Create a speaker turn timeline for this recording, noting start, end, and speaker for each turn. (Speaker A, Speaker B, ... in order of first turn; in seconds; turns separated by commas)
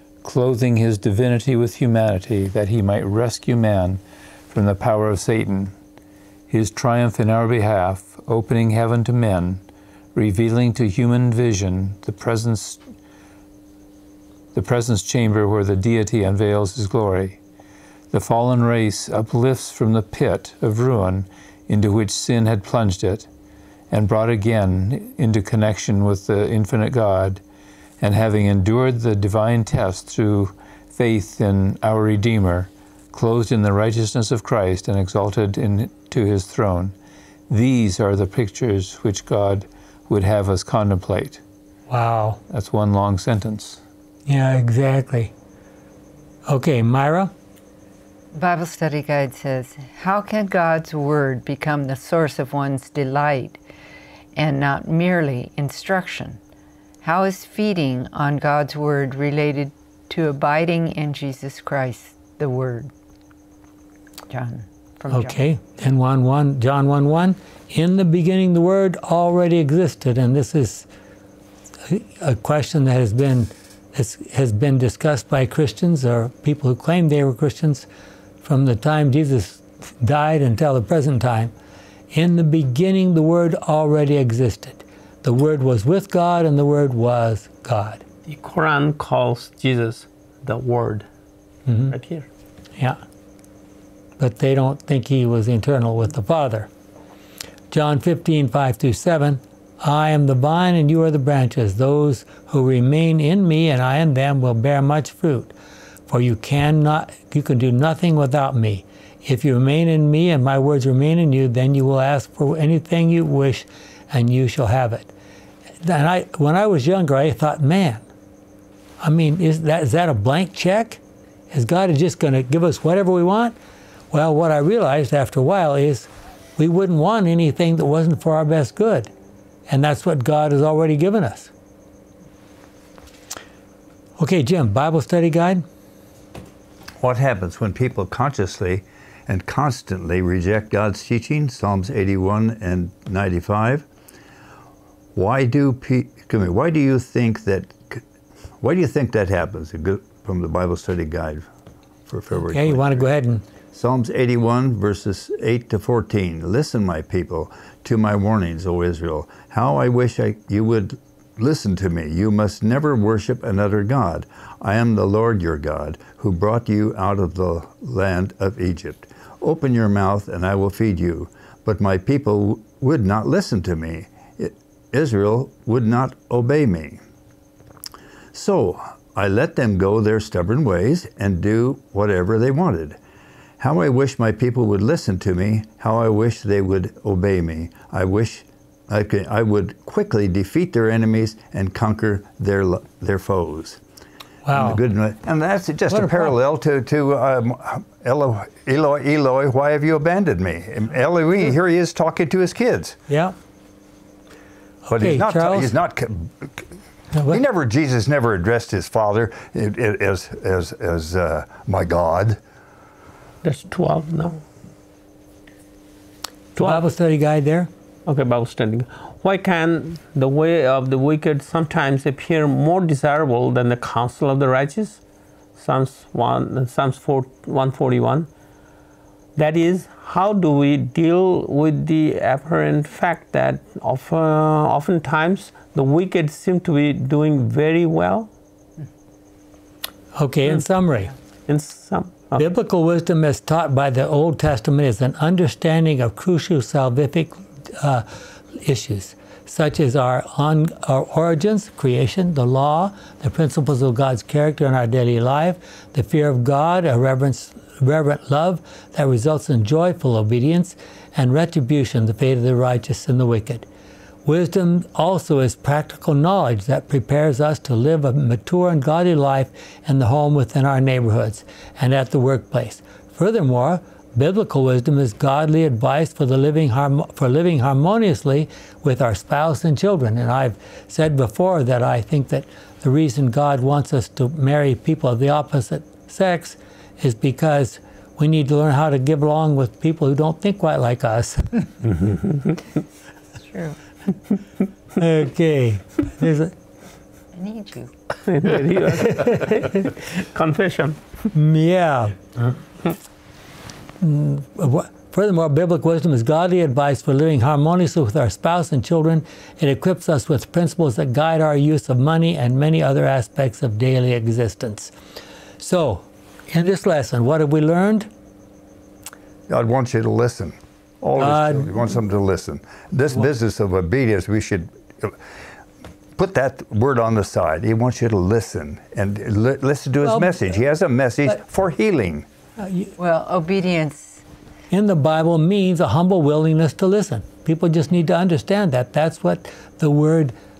Speaker A: 0.2-5.7, Speaker A: 6.5-9.6, Speaker A: 10.1-12.8, Speaker A: 14.5-17.4, Speaker A: 18.1-23.3, Speaker A: 23.9-27.4, Speaker A: 28.0-36.9, Speaker A: 37.5-41.4, Speaker B: 41.9-42.4, Speaker A: 42.5-43.8, Speaker B: 44.3-45.3, Speaker B: 46.5-47.3, Speaker C: 48.3-53.6, Speaker C: 54.3-56.4, Speaker C: 57.0-62.9, Speaker C: 64.3-65.3, Speaker B: 65.1-70.9, Speaker B: 71.8-77.9, Speaker B: 78.4-81.5, Speaker B: 82.1-88.0, Speaker D: 88.3-91.1, Speaker B: 91.7-91.9, Speaker D: 91.9-92.3, Speaker B: 94.2-96.7, Speaker B: 97.7-105.5, Speaker B: 106.1-115.1, Speaker B: 115.8-118.0, Speaker B: 119.0-123.5, Speaker B: 124.1-129.1, Speaker B: 129.7-131.5, Speaker B: 134.2-135.6, Speaker E: 137.0-143.9, Speaker E: 145.1-148.0, Speaker E: 148.6-151.5, Speaker E: 152.1-153.1, Speaker B: 152.4-153.4, Speaker E: 153.7-177.0, Speaker E: 178.3-183.0, Speaker E: 183.6-193.8, Speaker B: 194.4-194.8, Speaker E: 194.5-203.0, Speaker B: 195.9-196.3, Speaker B: 203.1-203.3, Speaker B: 204.8-205.7, Speaker E: 204.9-206.7, Speaker B: 207.1-207.4, Speaker E: 207.3-212.4, Speaker D: 213.4-214.4, Speaker D: 216.6-216.8, Speaker B: 216.6-217.7, Speaker D: 218.1-225.0, Speaker D: 225.6-228.3, Speaker D: 229.3-238.3, Speaker B: 240.1-241.1, Speaker D: 241.5-242.4, Speaker B: 242.3-263.6, Speaker B: 264.2-291.7, Speaker C: 293.5-293.8, Speaker B: 294.9-296.5, Speaker C: 297.3-297.9, Speaker D: 298.2-301.3, Speaker B: 299.1-299.4, Speaker B: 301.3-302.2, Speaker B: 304.0-314.9, Speaker B: 315.6-318.1, Speaker E: 319.5-325.2, Speaker B: 321.2-321.7, Speaker E: 326.2-332.2, Speaker B: 330.0-330.3, Speaker B: 332.6-332.9, Speaker C: 333.0-334.2, Speaker B: 334.7-340.3